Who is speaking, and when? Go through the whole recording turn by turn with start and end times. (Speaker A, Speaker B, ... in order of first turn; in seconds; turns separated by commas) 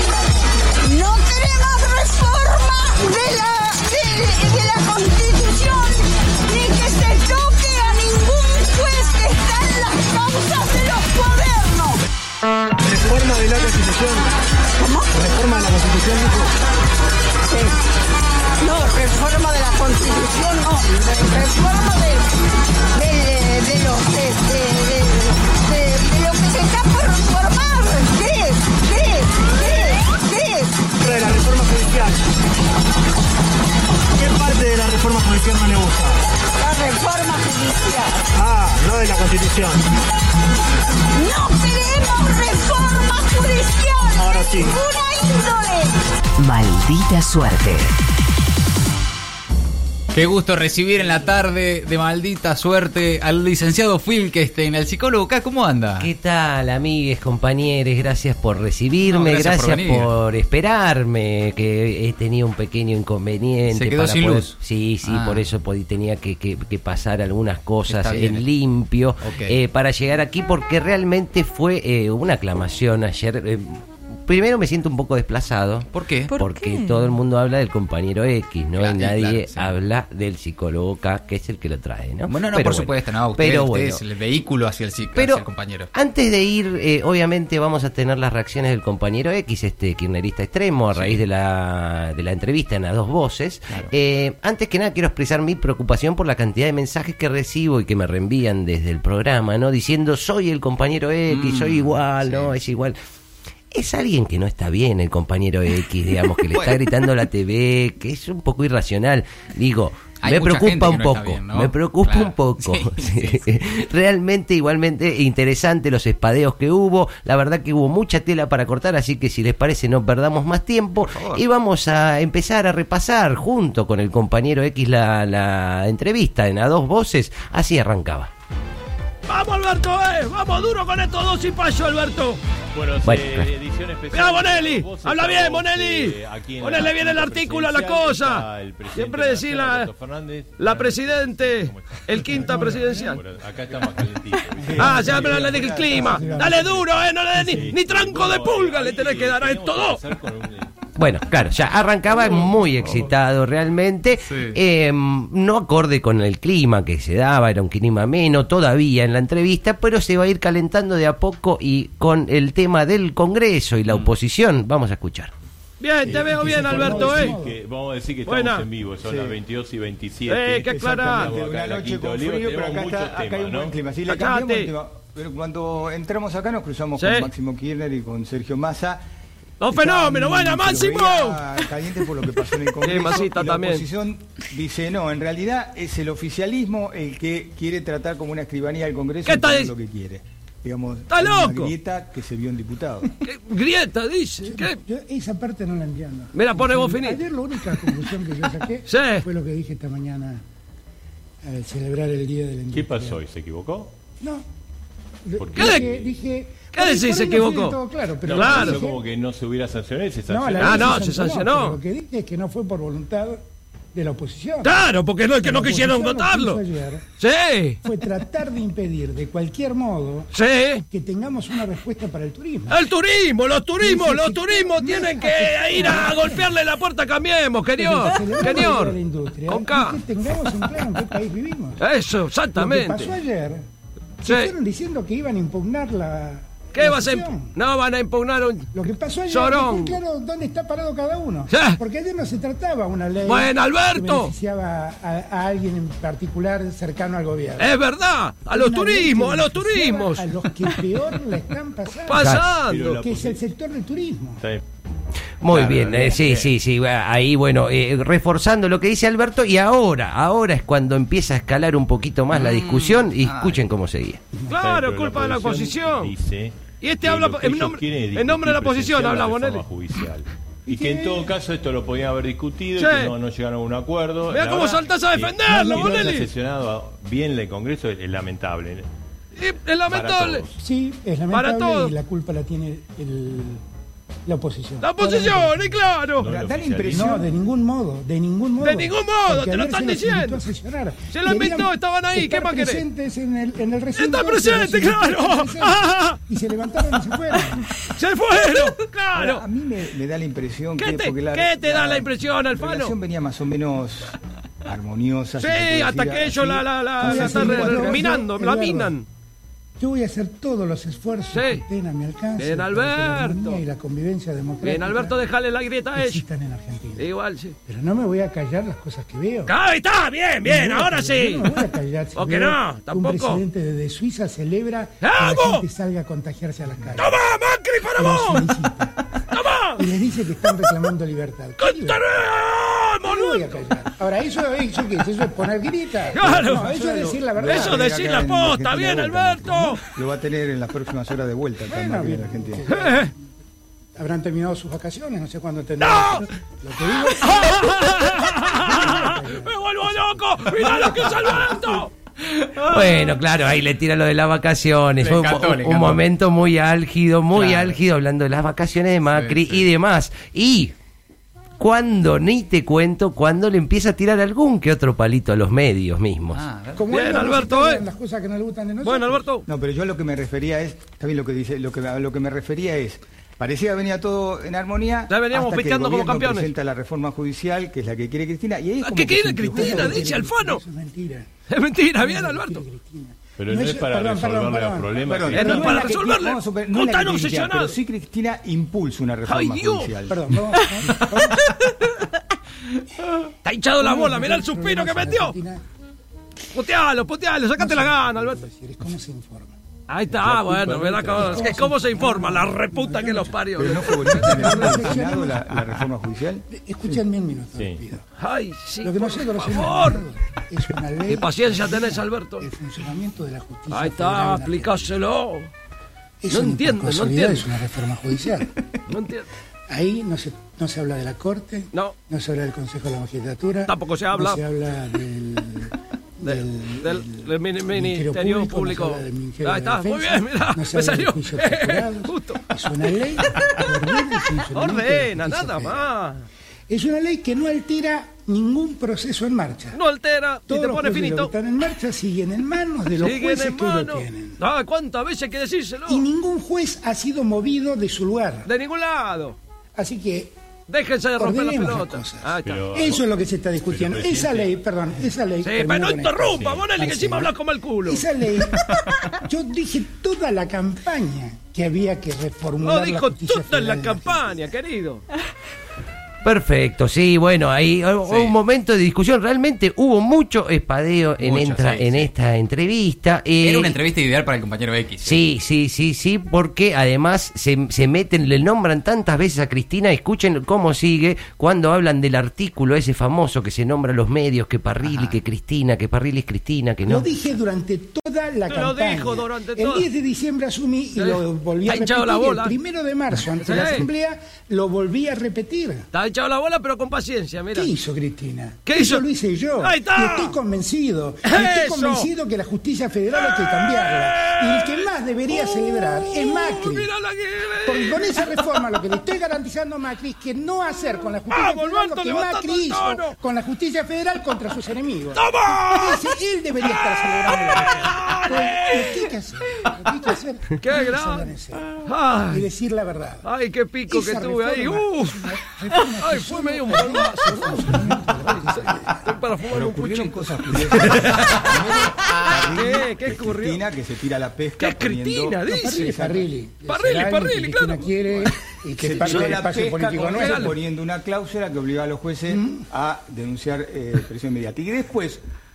Speaker A: 0.8-12.0, Speaker B: 12.8-14.3, Speaker A: 14.8-15.9, Speaker B: 15.1-16.5, Speaker A: 17.5-17.8, Speaker A: 18.6-22.3, Speaker A: 22.9-30.9, Speaker B: 31.0-32.2, Speaker B: 34.2-36.2, Speaker A: 36.6-38.3, Speaker B: 38.3-39.9, Speaker A: 41.1-46.0, Speaker B: 44.2-44.8, Speaker C: 46.5-47.7, Speaker D: 50.1-56.1, Speaker C: 56.0-84.0, Speaker D: 59.0-60.1, Speaker D: 63.6-65.5, Speaker D: 67.9-68.4, Speaker D: 69.2-69.6, Speaker D: 75.9-76.5, Speaker D: 78.8-79.8, Speaker D: 82.3-85.9, Speaker C: 85.1-103.0, Speaker D: 90.9-91.2, Speaker D: 101.3-102.5, Speaker C: 103.7-128.3, Speaker D: 106.5-106.8, Speaker D: 110.2-113.6, Speaker D: 121.0-121.4, Speaker E: 129.3-132.4, Speaker F: 132.7-145.5, Speaker C: 133.0-133.5, Speaker E: 134.1-139.9, Speaker E: 140.6-143.2, Speaker G: 142.2-143.2, Speaker G: 144.6-147.7, Speaker H: 144.7-146.7, Speaker E: 144.8-150.0, Speaker F: 147.4-150.7, Speaker C: 150.9-165.3, Speaker D: 154.3-154.6, Speaker E: 165.8-167.4, Speaker G: 166.0-167.6, Speaker H: 166.0-167.0, Speaker F: 166.4-173.8, Speaker E: 168.2-168.7, Speaker H: 169.0-169.4, Speaker E: 170.3-171.3, Speaker H: 170.7-179.0, Speaker E: 174.1-174.7, Speaker E: 176.9-177.3, Speaker E: 179.6-181.5, Speaker H: 179.7-193.1, Speaker E: 182.7-183.9, Speaker E: 189.2-189.7, Speaker E: 191.1-191.7, Speaker E: 193.2-194.8, Speaker G: 194.4-200.4, Speaker E: 196.3-197.2, Speaker E: 198.8-199.2, Speaker G: 201.4-203.2, Speaker F: 202.7-203.9, Speaker G: 204.2-204.4, Speaker G: 205.2-209.0, Speaker F: 205.4-206.1, Speaker E: 205.5-205.8, Speaker E: 206.7-208.8, Speaker F: 208.2-211.1, Speaker G: 210.3-213.4, Speaker E: 210.6-211.8, Speaker G: 213.9-217.1, Speaker E: 214.6-216.6, Speaker E: 217.2-217.8, Speaker G: 217.8-220.3, Speaker E: 220.3-220.8, Speaker G: 220.9-222.8, Speaker E: 222.7-230.5, Speaker G: 223.8-226.5, Speaker G: 227.7-231.8, Speaker E: 231.8-233.1, Speaker G: 232.6-233.7, Speaker G: 234.2-237.5, Speaker E: 234.2-234.5, Speaker E: 236.7-238.7, Speaker G: 238.7-247.7, Speaker E: 239.3-240.0, Speaker E: 241.5-241.8, Speaker E: 243.2-244.3, Speaker E: 247.6-250.8, Speaker G: 248.5-252.2, Speaker E: 252.1-253.0, Speaker C: 252.2-252.4, Speaker F: 252.7-253.4, Speaker G: 252.9-254.4, Speaker C: 255.4-264.2, Speaker F: 255.5-256.5, Speaker D: 262.3-263.6, Speaker E: 264.5-266.1, Speaker F: 264.5-278.9, Speaker E: 266.8-269.6, Speaker G: 270.6-271.3, Speaker E: 272.8-273.1, Speaker E: 274.3-276.3, Speaker G: 275.5-276.2, Speaker E: 279.4-280.4, Speaker F: 279.9-280.5, Speaker G: 280.6-283.6, Speaker E: 281.3-281.9, Speaker G: 284.2-285.8, Speaker E: 284.8-286.3, Speaker F: 286.2-287.1, Speaker H: 286.2-287.3, Speaker G: 286.9-297.7, Speaker E: 288.6-290.5, Speaker E: 291.1-292.8, Speaker E: 294.0-296.2, Speaker E: 297.9-299.4, Speaker H: 299.1-308.2, Speaker E: 300.8-303.0, Speaker E: 305.4-309.1, Speaker G: 307.0-308.9, Speaker G: 309.8-315.1, Speaker E: 311.3-311.6, Speaker E: 312.4-313.6, Speaker E: 314.6-316.2, Speaker G: 315.9-317.1, Speaker E: 317.0-317.5, Speaker G: 317.6-319.5, Speaker E: 319.5-321.6, Speaker G: 320.4-327.2, Speaker E: 322.1-323.4, Speaker E: 325.0-325.6, Speaker E: 326.9-328.5, Speaker G: 328.0-329.2, Speaker E: 329.3-329.8, Speaker G: 329.7-332.0, Speaker E: 331.6-333.6, Speaker G: 333.0-337.8, Speaker E: 336.1-339.8, Speaker H: 336.7-342.6, Speaker G: 341.6-343.2, Speaker E: 342.7-343.1, Speaker G: 343.9-351.9, Speaker E: 345.8-346.2, Speaker E: 346.9-351.9, Speaker C: 352.4-360.7, Speaker D: 355.0-356.0, Speaker D: 357.3-357.8, Speaker D: 359.1-359.6, Speaker C: 361.6-366.4, Speaker D: 366.3-366.9, Speaker G: 366.7-369.2, Speaker E: 366.9-367.9, Speaker E: 368.8-369.4, Speaker H: 369.5-380.1, Speaker E: 375.1-376.5, Speaker E: 378.8-380.6, Speaker G: 379.5-381.3, Speaker E: 381.5-382.6, Speaker G: 381.9-385.9, Speaker F: 383.4-385.8, Speaker H: 385.0-390.3, Speaker E: 385.3-387.8, Speaker E: 389.3-389.9, Speaker G: 390.1-391.5, Speaker E: 391.3-391.7, Speaker E: 393.4-395.3, Speaker G: 393.8-395.6, Speaker E: 396.5-398.4, Speaker G: 397.6-399.6, Speaker E: 399.9-404.8, Speaker F: 400.1-401.6, Speaker G: 401.0-403.4, Speaker H: 403.5-406.4, Speaker G: 404.1-405.6, Speaker G: 406.5-408.0, Speaker E: 408.2-410.0, Speaker G: 408.8-414.9, Speaker E: 411.1-412.5, Speaker E: 413.7-415.5, Speaker G: 416.2-418.6, Speaker E: 416.3-417.5, Speaker E: 418.9-419.2, Speaker G: 419.7-435.9, Speaker E: 423.7-424.4, Speaker E: 426.2-432.5, Speaker E: 433.2-436.2, Speaker G: 436.7-439.8, Speaker E: 439.7-441.3, Speaker G: 440.5-444.4, Speaker E: 442.9-446.0, Speaker G: 445.9-448.5, Speaker E: 448.4-449.4, Speaker G: 449.7-450.3, Speaker E: 450.7-452.7, Speaker G: 451.2-464.5, Speaker F: 452.4-454.5, Speaker E: 455.4-458.0, Speaker F: 456.3-456.6, Speaker D: 458.6-458.8, Speaker E: 462.6-465.0, Speaker C: 466.2-473.8, Speaker D: 468.0-468.3, Speaker D: 471.2-472.1, Speaker D: 473.4-475.2, Speaker C: 475.0-487.1, Speaker D: 484.8-485.2, Speaker G: 486.9-495.9, Speaker E: 488.4-489.9, Speaker E: 490.9-492.5, Speaker E: 493.3-493.9, Speaker E: 495.9-497.7, Speaker G: 497.5-506.9, Speaker E: 498.6-499.0, Speaker E: 499.6-500.4, Speaker E: 501.2-502.1, Speaker E: 503.1-508.8, Speaker G: 507.6-523.2, Speaker E: 511.3-513.1, Speaker E: 515.1-519.1, Speaker E: 520.6-522.5, Speaker E: 523.2-533.6, Speaker G: 523.9-529.2, Speaker H: 529.5-536.3, Speaker E: 534.6-535.9, Speaker G: 535.5-540.6, Speaker E: 536.7-537.9, Speaker H: 538.8-545.2, Speaker E: 538.9-539.3, Speaker E: 540.0-540.5, Speaker G: 542.3-542.7